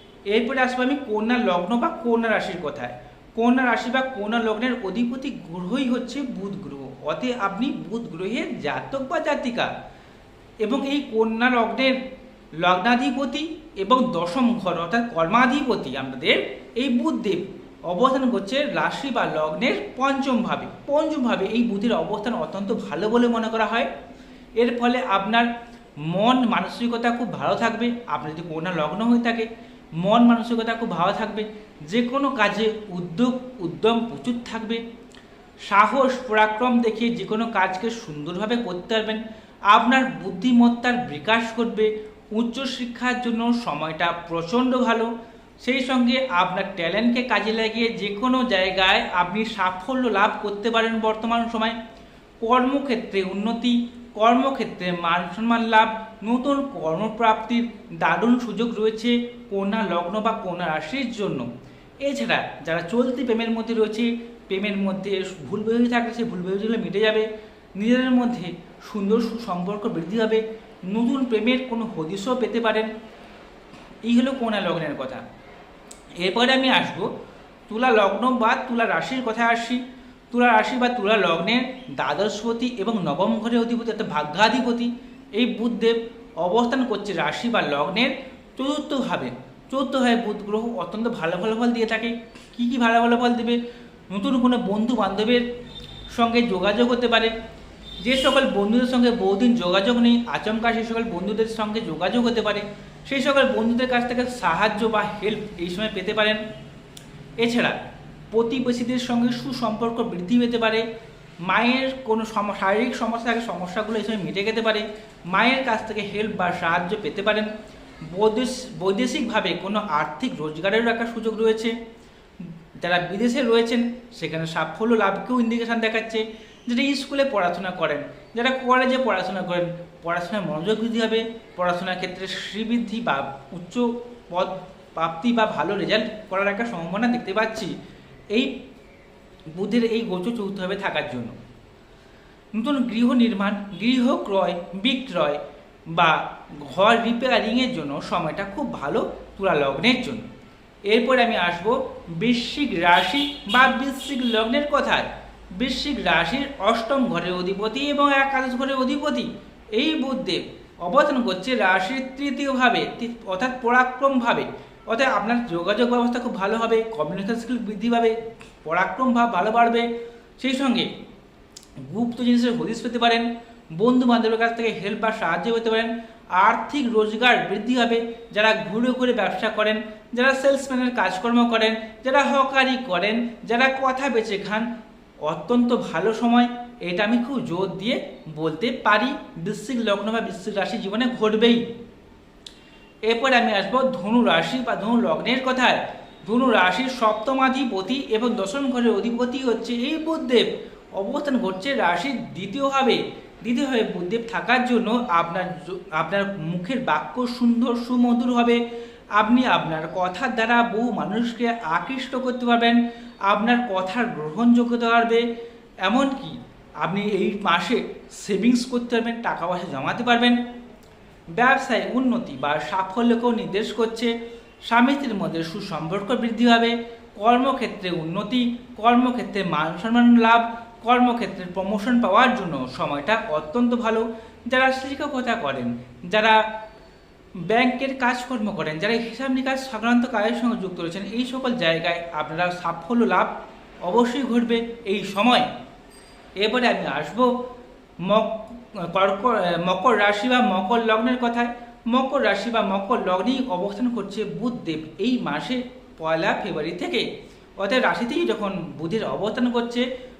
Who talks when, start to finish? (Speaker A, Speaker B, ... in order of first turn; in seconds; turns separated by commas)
Speaker A: 0.3-9.7, Speaker A: 10.6-12.0, Speaker A: 12.6-23.9, Speaker A: 24.6-25.5, Speaker A: 26.1-29.5, Speaker A: 30.0-34.8, Speaker A: 35.7-45.1, Speaker A: 45.6-51.8, Speaker A: 52.4-61.5, Speaker A: 62.0-72.9, Speaker A: 74.0-75.2, Speaker A: 76.2-77.1, Speaker A: 77.7-95.5, Speaker A: 96.1-97.3, Speaker A: 98.0-106.4, Speaker A: 107.4-107.8, Speaker A: 108.3-110.9, Speaker A: 111.5-117.5, Speaker A: 118.1-121.8, Speaker A: 122.4-137.7, Speaker A: 139.5-141.4, Speaker A: 142.6-145.4, Speaker A: 145.9-150.2, Speaker A: 150.9-169.9, Speaker A: 170.4-170.9, Speaker A: 171.9-184.7, Speaker A: 185.2-191.6, Speaker A: 193.1-208.6, Speaker A: 209.2-215.2, Speaker A: 215.8-220.4, Speaker A: 221.3-224.1, Speaker A: 224.7-236.4, Speaker A: 237.5-243.3, Speaker A: 243.8-245.5, Speaker A: 246.4-247.3, Speaker A: 248.1-257.1, Speaker A: 257.6-259.9